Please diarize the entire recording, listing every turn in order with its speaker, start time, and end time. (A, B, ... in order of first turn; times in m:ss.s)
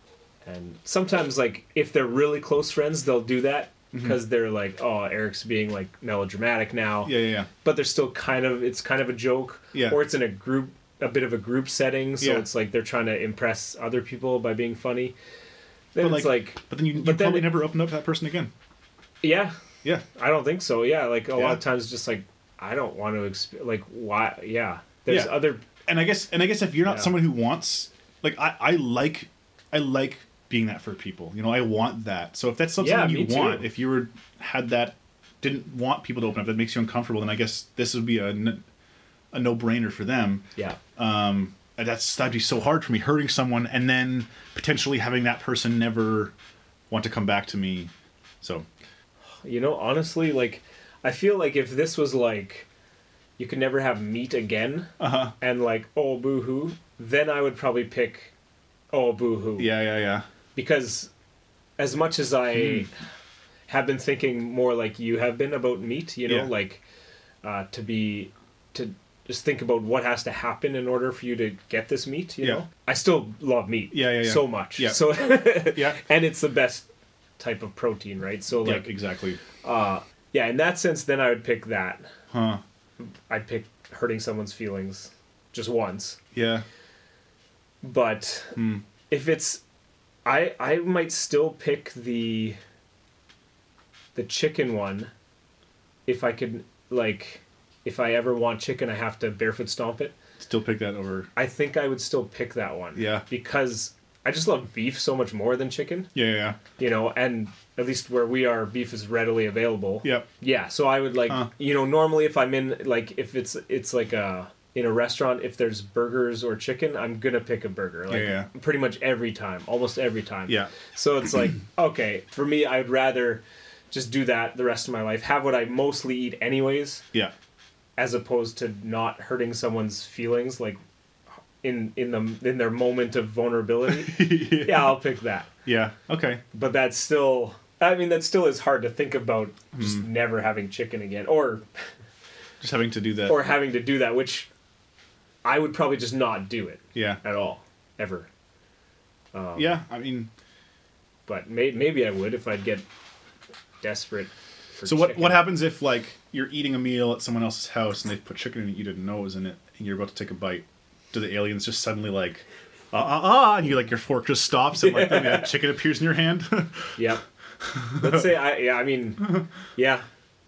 0:00.4-0:15.2 A
0:03.9-0:04.2 B
0:07.0-0:07.5 B
0:09.7-0:10.0 B
0:12.2-0:12.4 B
0:15.9-0:17.6 A
0:16.0-0:18.5 B
0:19.2-0:19.5 A
0:20.1-0:25.6 A
0:21.3-0:21.6 B
0:25.1-0:38.6 B
0:26.8-0:27.2 A
0:32.8-0:33.7 A
0:39.3-0:46.3 B
0:46.9-0:47.9 B
0:48.4-0:48.7 B
0:49.4-0:52.7 A
0:53.4-0:58.3 A
0:55.0-0:55.3 B
0:58.9-0:59.8 A
0:59.6-1:00.2 B
1:00.5-1:01.1 A
1:01.8-1:02.9 A
1:02.6-1:02.8 B
1:03.7-1:06.8 A
1:07.4-1:16.9 A
1:13.9-1:16.0 B
1:17.4-1:19.0 A
1:18.6-1:19.4 B
1:19.6-1:22.0 A
1:22.3-1:22.6 B
1:23.3-1:26.2 A
1:26.3-1:26.6 B
1:27.8-1:28.6 A
1:28.6-1:28.8 B
1:29.1-1:29.6 A
1:30.2-1:32.6 A
1:34.1-1:35.1 A
1:36.0-1:40.1 A
1:40.4-1:41.3 B
1:41.4-1:46.1 A
1:42.9-1:43.2 B
1:46.1-1:46.6 B
1:46.8-2:07.0 A
1:50.0-1:50.3 B
1:58.1-1:58.5 B
2:00.5-2:00.8 B
2:08.0-2:10.8 A
2:11.6-2:15.5 A
2:14.0-2:15.0 B
2:15.6-2:16.4 B
2:16.5-2:21.6 A
2:19.8-2:20.0 B
2:22.6-2:23.5 B
2:23.2-2:24.5 A
2:25.4-2:28.3 A
2:26.9-2:27.2 B
2:29.3-2:29.8 A
2:29.6-2:30.3 B
2:31.3-2:32.8 A
2:33.8-2:35.5 A
2:34.8-2:47.0 B
2:44.8-2:45.6 A
2:47.0-2:47.2 A
2:47.6-2:48.4 B
2:48.0-2:50.0 A